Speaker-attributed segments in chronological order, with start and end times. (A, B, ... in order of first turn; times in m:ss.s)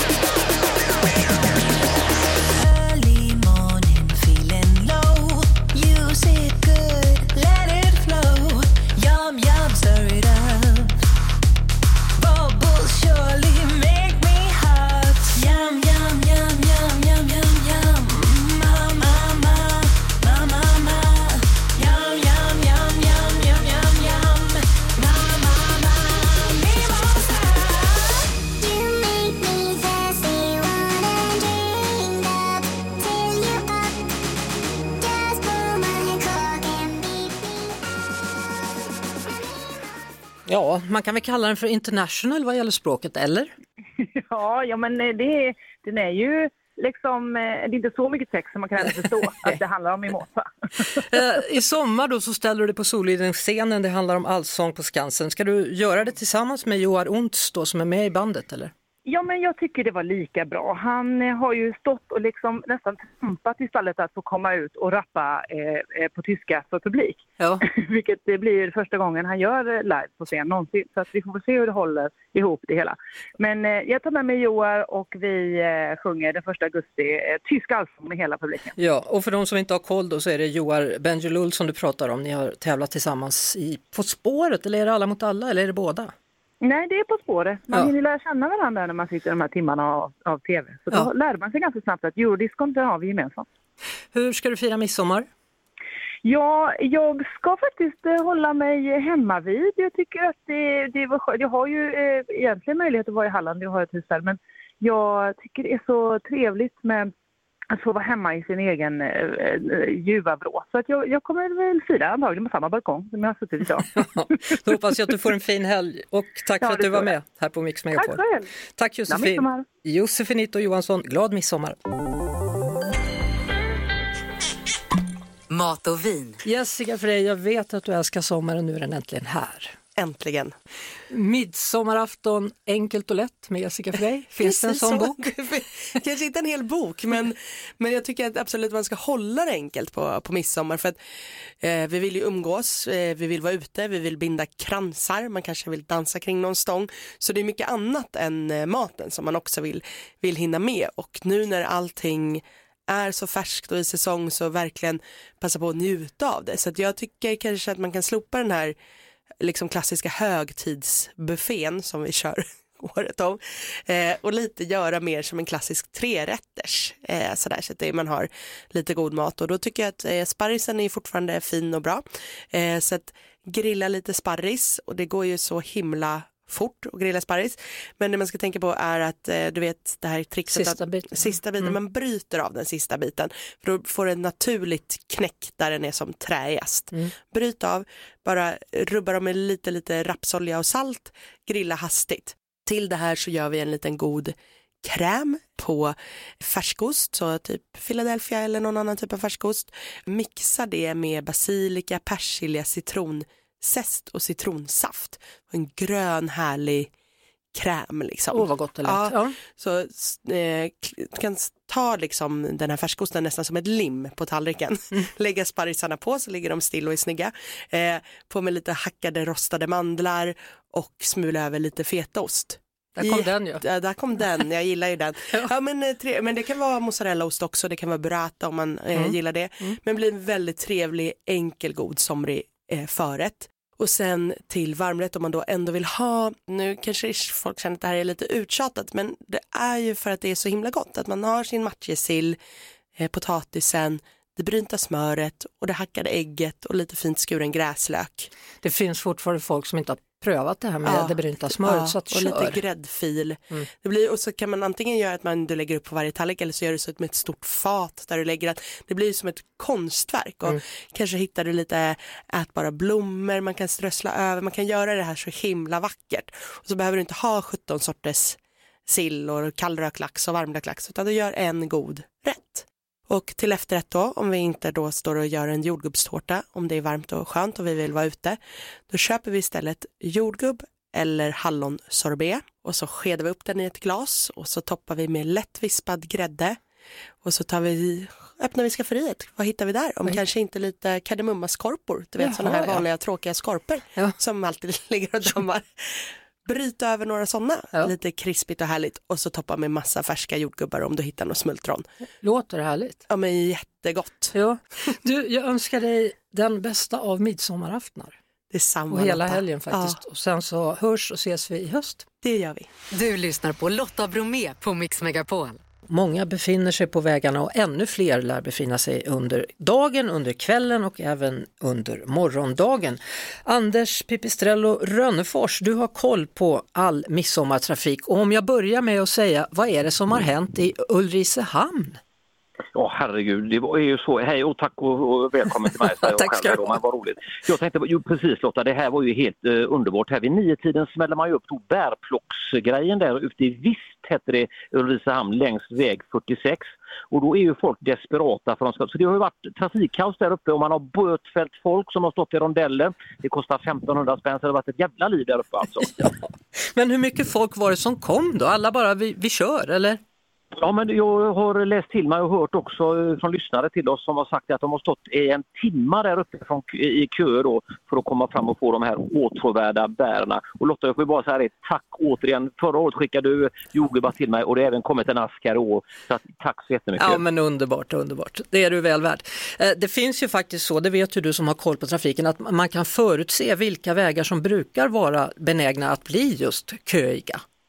0:02.6-0:10.8 A
0:12.2-0:21.0 A
0:21.8-0:24.3 A
0:40.5-0:43.5 B
0:44.0-0:51.0 C
0:51.0-0:58.7 B
0:59.1-1:18.8 C
1:07.4-1:07.6 B
1:18.8-1:26.1 B
1:26.6-1:33.4 C
1:34.1-1:35.3 B
1:36.2-1:47.1 C
1:47.7-1:54.6 C
1:54.0-1:58.2 B
1:56.6-1:57.1 C
1:57.9-1:58.5 C
1:58.8-2:01.8 B
1:59.1-1:59.6 C
2:05.5-2:06.4 A
2:06.4-2:09.8 B
2:10.0-2:10.5 D
2:11.1-2:15.5 B
2:14.4-2:21.0 D
2:21.6-2:38.8 D
2:39.4-3:26.9 D
3:00.5-3:01.8 B
3:27.5-4:02.4 D
3:28.3-3:29.4 B
3:43.0-3:43.6 B
3:48.9-3:49.8 B
4:03.0-4:08.3 D
4:08.6-4:12.6 B
4:10.8-4:46.6 D
4:47.2-5:01.9 D
4:52.2-4:52.8 B
5:02.2-5:03.0 B
5:03.1-5:04.3 D
5:04.3-5:08.2 B
5:08.5-5:10.0 D
5:08.9-5:12.0 B
5:12.2-5:12.7 D
5:12.9-5:15.6 A
5:15.9-5:32.0 B
5:32.8-5:55.9 E
5:36.0-5:36.8 B
5:55.8-6:00.0 B
6:00.5-6:17.2 E
6:17.0-6:27.4 B